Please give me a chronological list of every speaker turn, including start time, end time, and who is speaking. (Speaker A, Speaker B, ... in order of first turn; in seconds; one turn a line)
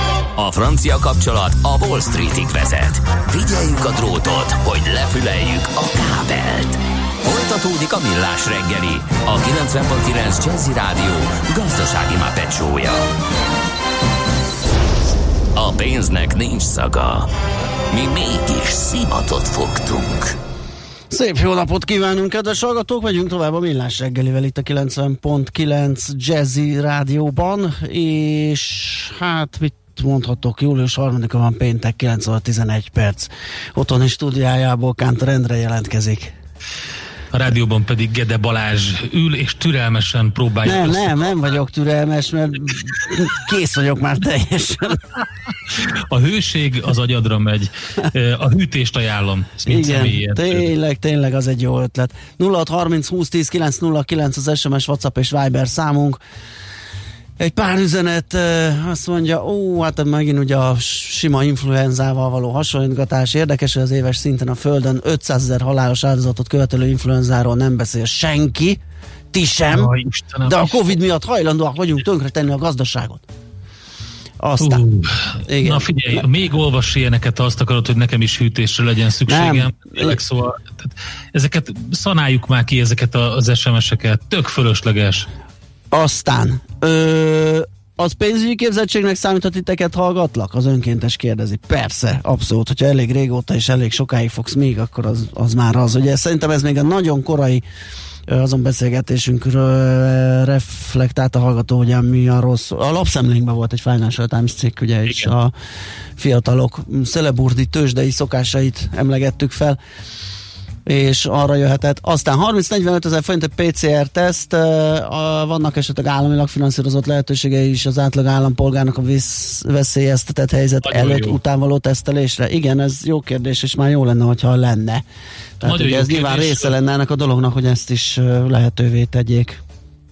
Speaker A: 0.4-13.1
Speaker A: 15.6-17.3
Speaker A: 17.9-20.4
Speaker B: 21.1-36.3
Speaker C: 37.3-41.2
Speaker B: 40.6-45.0
Speaker C: 46.1-50.7
Speaker B: 49.6-56.2
Speaker B: 57.4-68.8
Speaker B: 69.3-73.2
Speaker C: 69.7-70.9
Speaker B: 74.4-74.8
Speaker C: 74.6-75.1
Speaker B: 75.5-76.2
Speaker C: 75.6-85.3
Speaker B: 79.3-80.2
Speaker B: 85.9-97.6
Speaker B: 98.3-105.5
Speaker B: 106.2-109.8
Speaker B: 110.9-125.0
Speaker C: 120.8-121.4
Speaker B: 125.6-129.6
Speaker C: 125.6-126.7